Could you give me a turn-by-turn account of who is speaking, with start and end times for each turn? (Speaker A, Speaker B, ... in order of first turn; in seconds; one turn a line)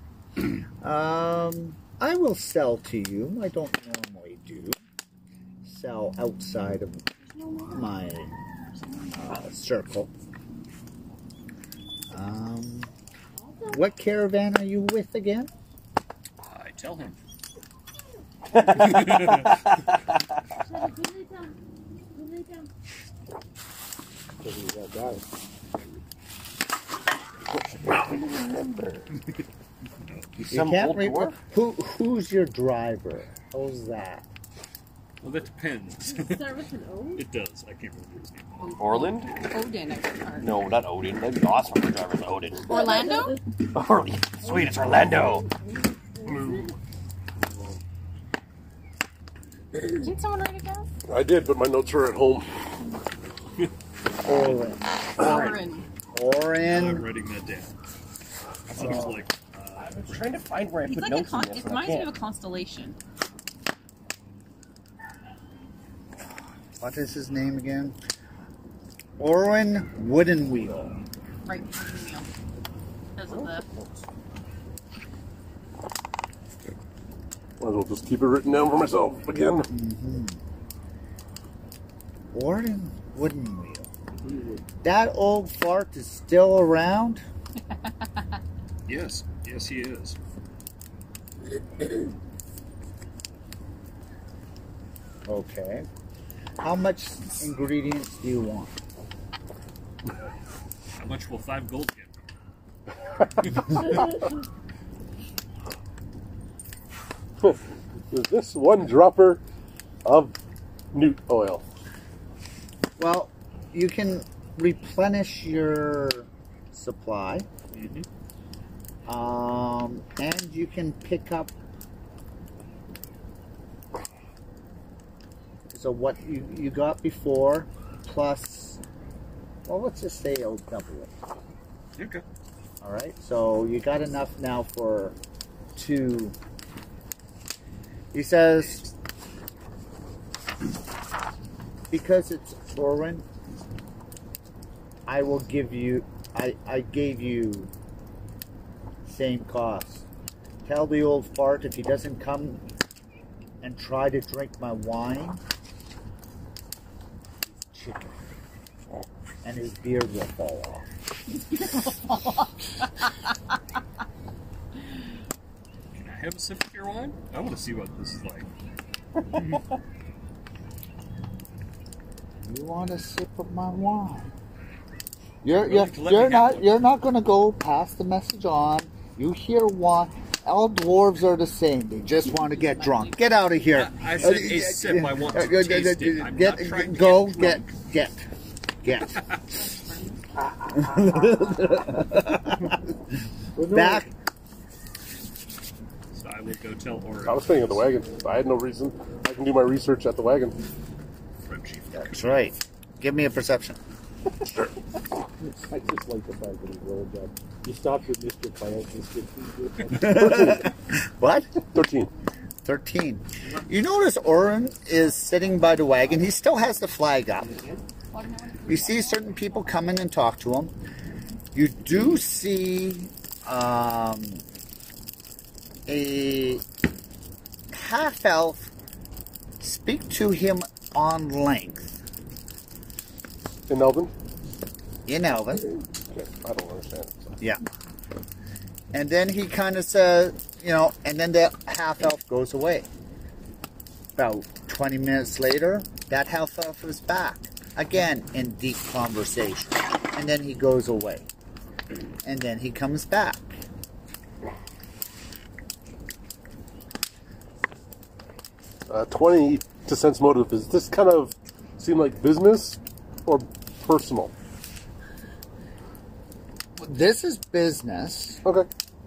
Speaker A: 0.4-4.8
Speaker A: 5.6-7.0
Speaker B: 7.4-7.8
Speaker A: 7.7-8.3
Speaker B: 8.7-9.2
Speaker A: 9.1-10.1
Speaker A: 12.1-12.9
Speaker C: 13.3-13.9
Speaker A: 13.7-15.5
Speaker D: 16.4-17.2
Speaker E: 18.5-20.2
Speaker D: 18.7-19.5
Speaker C: 20.6-21.6
Speaker C: 22.1-22.7
Speaker F: 24.4-25.2
Speaker E: 27.5-29.1
Speaker D: 30.0-30.3
Speaker E: 30.4-31.4
Speaker A: 30.5-34.3
Speaker D: 35.2-36.6
Speaker C: 36.0-37.2
Speaker D: 37.1-38.7
Speaker B: 38.6-40.6
Speaker E: 38.8-39.4
Speaker E: 40.4-42.8
Speaker B: 42.6-43.4
Speaker C: 42.7-43.4
Speaker E: 43.7-45.5
Speaker C: 44.4-46.8
Speaker B: 49.9-50.9
Speaker G: 51.0-52.5
Speaker A: 54.2-55.6
Speaker D: 54.3-54.6
Speaker B: 55.1-55.9
Speaker A: 56.1-57.1
Speaker D: 56.6-57.7
Speaker A: 58.7-59.2
Speaker D: 58.7-60.1
Speaker E: 58.8-59.2
Speaker E: 59.8-62.1
Speaker B: 60.8-63.0
Speaker A: 66.8-68.0
Speaker A: 69.2-71.0
Speaker B: 71.5-72.3
Speaker B: 73.2-73.7
Speaker E: 73.3-74.0
Speaker G: 77.6-79.7
Speaker A: 79.7-80.4
Speaker A: 82.3-83.9
Speaker A: 84.8-87.2
Speaker B: 87.9-88.2
Speaker D: 88.9-90.2
Speaker A: 95.2-95.9
Speaker A: 96.6-98.8
Speaker D: 101.0-102.2
Speaker D: 103.4-104.0
Speaker G: 108.1-109.4
Speaker G: 110.0-110.3
Speaker G: 110.9-111.6
Speaker A: 113.0-117.5
Speaker D: 117.7-118.0
Speaker A: 119.0-121.5
Speaker A: 125.7-128.8
Speaker A: 129.7-131.1
Speaker D: 132.0-132.2
Speaker A: 132.8-135.2
Speaker A: 135.8-136.3
Speaker A: 138.1-138.9
Speaker A: 141.9-143.2
Speaker A: 145.1-147.7
Speaker A: 149.0-150.1
Speaker A: 150.6-152.6
Speaker A: 153.6-155.4
Speaker A: 157.5-158.2
Speaker A: 159.4-160.9
Speaker D: 165.9-168.5
Speaker D: 169.3-169.6
Speaker A: 172.4-174.3
Speaker A: 175.4-188.3
Speaker D: 175.6-176.8
Speaker B: 182.2-183.2
Speaker D: 183.7-187.7
Speaker A: 188.8-189.3
Speaker B: 189.5-190.3
Speaker A: 190.7-192.8
Speaker F: 193.6-194.1
Speaker A: 193.6-194.1
Speaker D: 196.1-197.8
Speaker G: 197.2-200.6
Speaker D: 201.4-202.5
Speaker A: 201.9-203.8
Speaker F: 205.4-210.3
Speaker A: 209.9-211.5
Speaker G: 210.0-210.7
Speaker G: 211.7-212.1
Speaker A: 212.6-217.6
Speaker B: 218.1-220.0
Speaker A: 218.6-220.7
Speaker A: 221.5-224.4
Speaker A: 225.9-226.6
Speaker A: 227.7-228.7
Speaker A: 229.6-232.0
Speaker G: 233.7-234.1
Speaker A: 235.1-235.7
Speaker G: 236.1-237.4
Speaker A: 238.9-242.9
Speaker A: 244.2-251.3
Speaker A: 252.2-253.6
Speaker G: 258.9-264.3
Speaker A: 266.8-268.4